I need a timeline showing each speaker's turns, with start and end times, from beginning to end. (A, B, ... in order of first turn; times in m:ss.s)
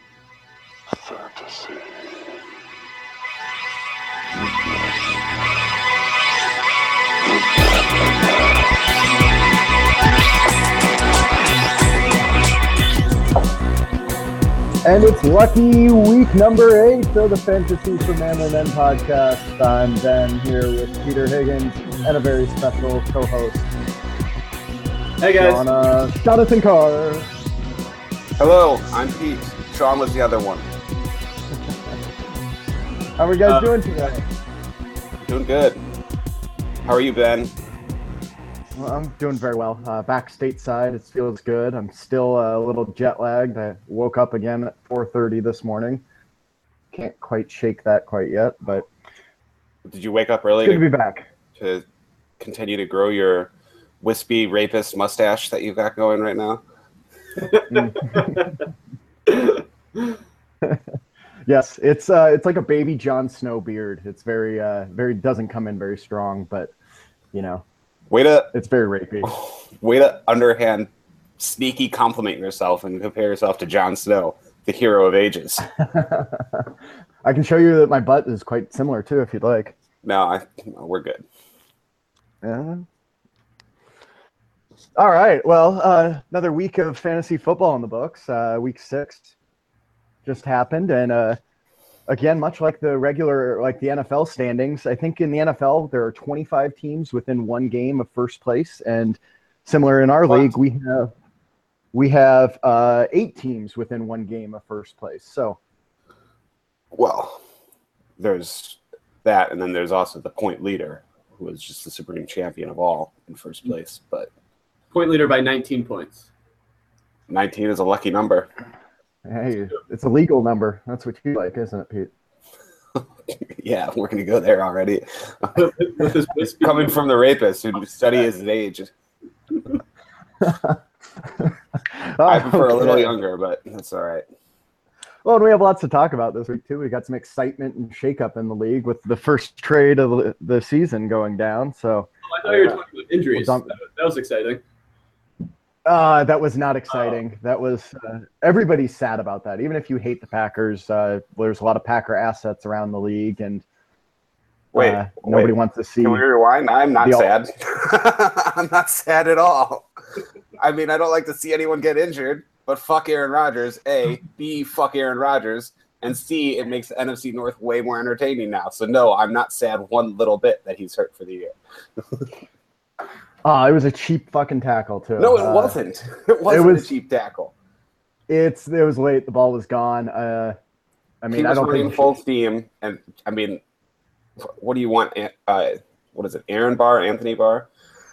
0:14.8-0:23.7 A
0:25.2-0:25.6 B
0:25.4-0:27.3 A
0:28.4-0:30.7 C
0:33.2-0:34.2 A
0:33.5-0:33.7 B
0:35.2-0:35.8 C
0:36.8-0:37.5 C
0:38.8-0:46.0 A
0:46.9-0:48.9 A
0:49.9-0:50.8 C
0:50.6-0:51.3 A
0:51.6-0:51.8 C
0:52.4-0:56.6 C
0:57.5-0:58.5 B
0:57.7-0:58.4 A
0:59.3-1:00.2 B
1:01.5-1:06.7 A
1:07.3-1:07.6 A
1:08.1-1:08.5 C
1:08.5-1:09.3 A
1:09.2-1:15.7 C
1:15.8-1:16.7 A
1:17.2-1:19.8 A
1:20.0-1:21.2 C
1:22.4-1:22.9 A
1:25.0-1:29.3 A
1:30.2-1:31.4 A
1:32.1-1:41.1 A
1:41.9-1:45.6 A
1:46.9-1:47.4 C
1:48.2-1:54.3 C
1:54.9-1:56.3 B
1:57.3-1:58.5 C
1:59.3-2:02.1 A
2:03.0-2:05.7 C
2:05.6-2:07.0 B
2:06.4-2:08.9 C
2:10.4-2:13.1 A
2:12.2-2:14.2 C
2:15.2-2:22.1 A
2:22.3-2:24.6 B
2:22.4-2:22.8 C
2:23.3-2:23.8 A
2:25.8-2:33.6 A
2:34.7-2:39.9 C
2:34.8-2:36.2 A
2:37.0-2:37.3 A
2:40.6-2:52.3 C
2:53.4-2:55.8 A
2:55.2-2:57.5 C
2:56.5-2:56.9 A
2:58.3-3:00.6 A
3:01.2-3:02.1 A
3:01.3-3:03.6 C
3:04.4-3:07.7 C